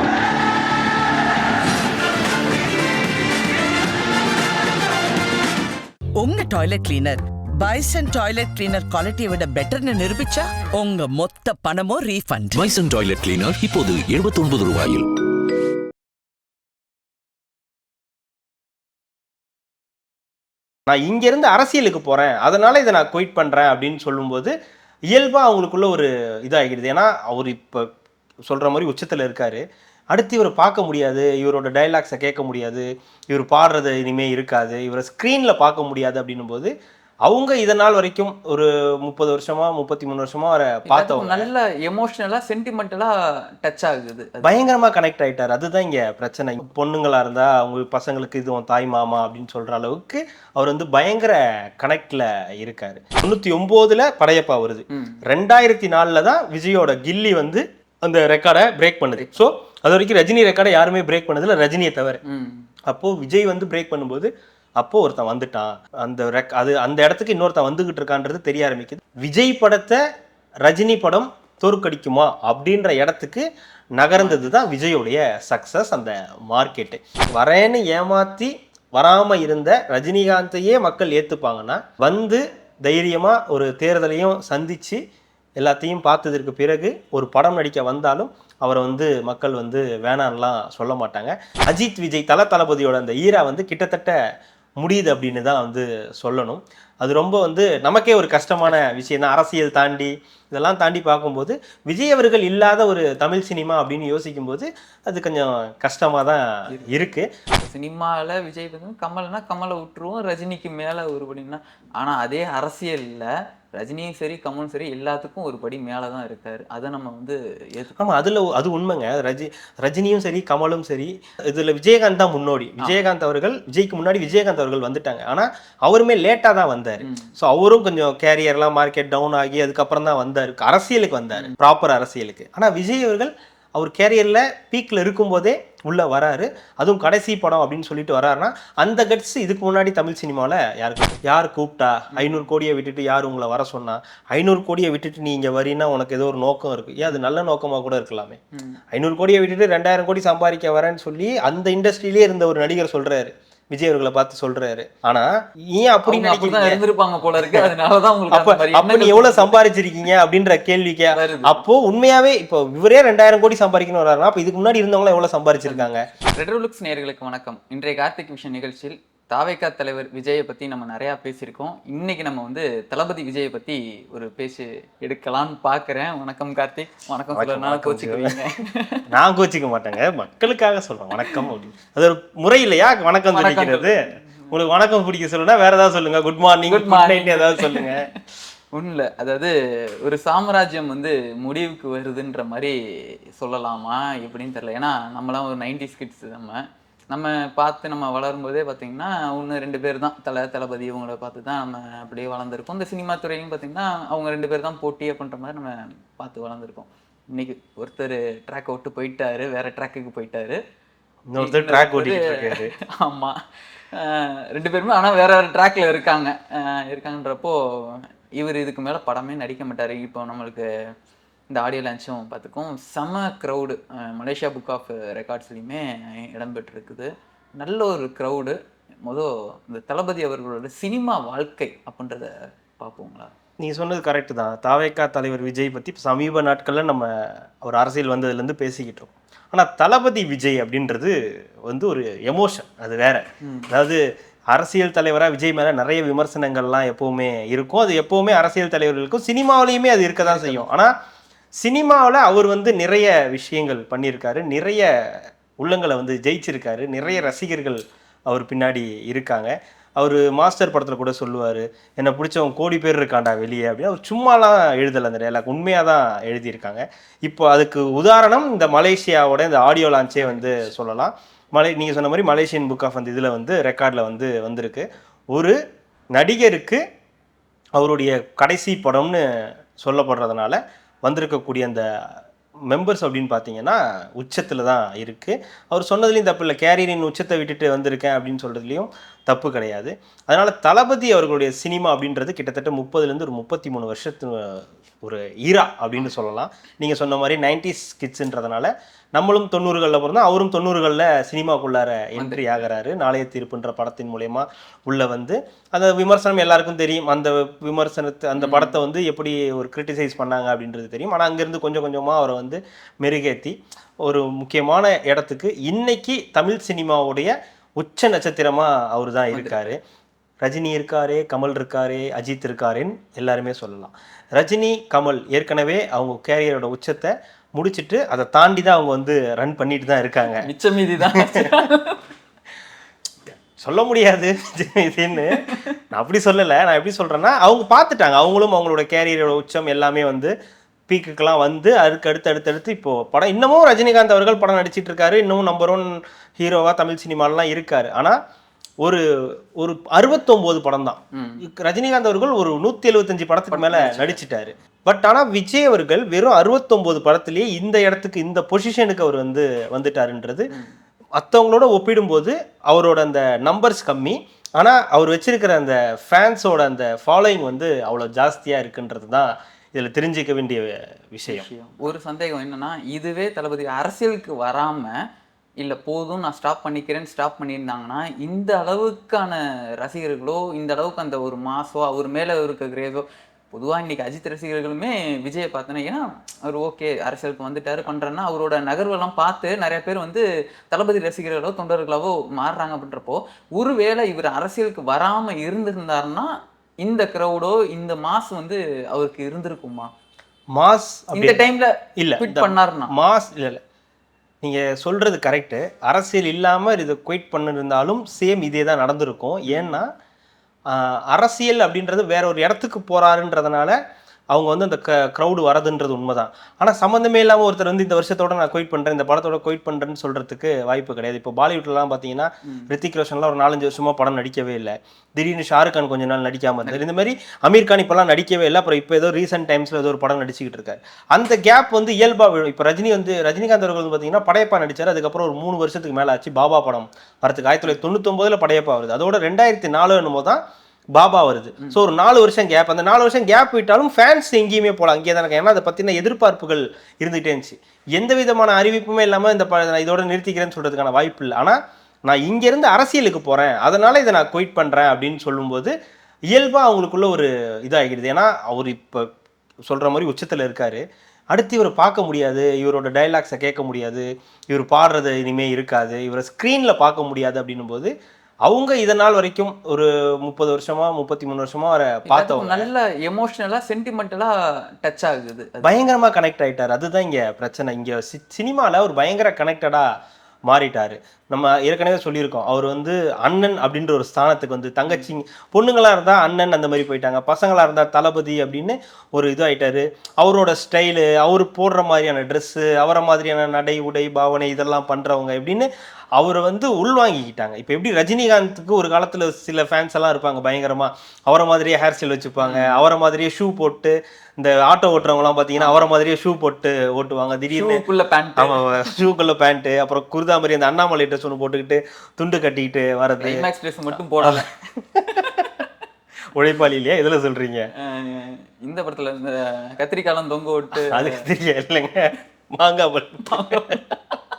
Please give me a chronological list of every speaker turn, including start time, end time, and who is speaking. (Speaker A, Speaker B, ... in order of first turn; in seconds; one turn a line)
Speaker A: 6.2-12.8
Speaker B: 12.6-15.1
Speaker C: 20.9-24.5
Speaker C: 25.1-27.9
Speaker C: 28.5-36.7
Speaker C: 37.2-41.5
Speaker D: 40.9-44.6
Speaker C: 44.4-62.2
Speaker D: 54.9-55.2
Speaker D: 62.2-62.7
Speaker C: 62.9-70.0
Speaker C: 70.7-85.0
Speaker D: 74.2-74.5
Speaker C: 85.6-94.2
Speaker C: 94.8-107.3
Speaker D: 107.6-118.1
Speaker C: 118.0-148.4
Speaker D: 127.0-127.3
Speaker D: 142.1-142.4
Speaker D: 148.6-148.8
Speaker C: 148.9-156.8
Speaker D: 156.1-159.6
Speaker C: 157.4-157.7
Speaker C: 158.3-166.1
Speaker D: 161.1-161.6
Speaker D: 165.7-179.1
Speaker C: 177.3-178.4
Speaker C: 179.1-184.0
Speaker D: 183.3-184.5
Speaker C: 184.5-188.1
Speaker D: 186.7-188.2
Speaker D: 188.7-192.8
Speaker D: 193.4-210.6
Speaker C: 211.3-212.7
Speaker D: 211.4-213.4
Speaker D: 213.9-220.7
Speaker D: 221.5-233.3
Speaker C: 233.6-250.9
Speaker D: 243.4-243.7
Speaker D: 250.2-250.7
Speaker C: 251.6-275.6
Speaker D: 257.0-257.3
Speaker D: 270.2-270.7
Speaker C: 276.1-276.8
Speaker C: 277.8-281.9
Speaker C: 282.7-319.8
Speaker D: 302.1-302.4
Speaker D: 308.4-308.8
Speaker D: 319.3-319.6
Speaker C: 320.4-330.5
Speaker D: 330.4-332.0
Speaker C: 331.0-331.7
Speaker C: 333.3-340.3
Speaker D: 335.3-335.7
Speaker C: 340.9-348.2
Speaker C: 349.5-360.5
Speaker D: 351.1-351.4
Speaker D: 353.5-354.2
Speaker C: 361.1-371.5
Speaker D: 371.3-375.0
Speaker D: 375.6-399.9
Speaker C: 400.5-401.4
Speaker D: 401.1-402.9
Speaker C: 402.0-403.6
Speaker C: 404.4-409.9
Speaker D: 409.5-409.8
Speaker C: 410.7-413.8
Speaker C: 414.3-440.4
Speaker D: 422.5-422.7
Speaker C: 440.9-455.7
Speaker C: 456.3-459.1
Speaker C: 459.7-467.9
Speaker C: 468.4-472.7
Speaker D: 472.1-475.7
Speaker C: 475.6-479.9
Speaker C: 480.5-507.8
Speaker D: 502.4-502.8
Speaker D: 505.6-505.9
Speaker D: 507.5-509.0
Speaker C: 508.4-515.3
Speaker D: 513.2-514.5
Speaker D: 515.1-515.6
Speaker C: 516.3-517.7
Speaker D: 517.8-521.3
Speaker C: 520.7-523.8
Speaker D: 523.3-524.1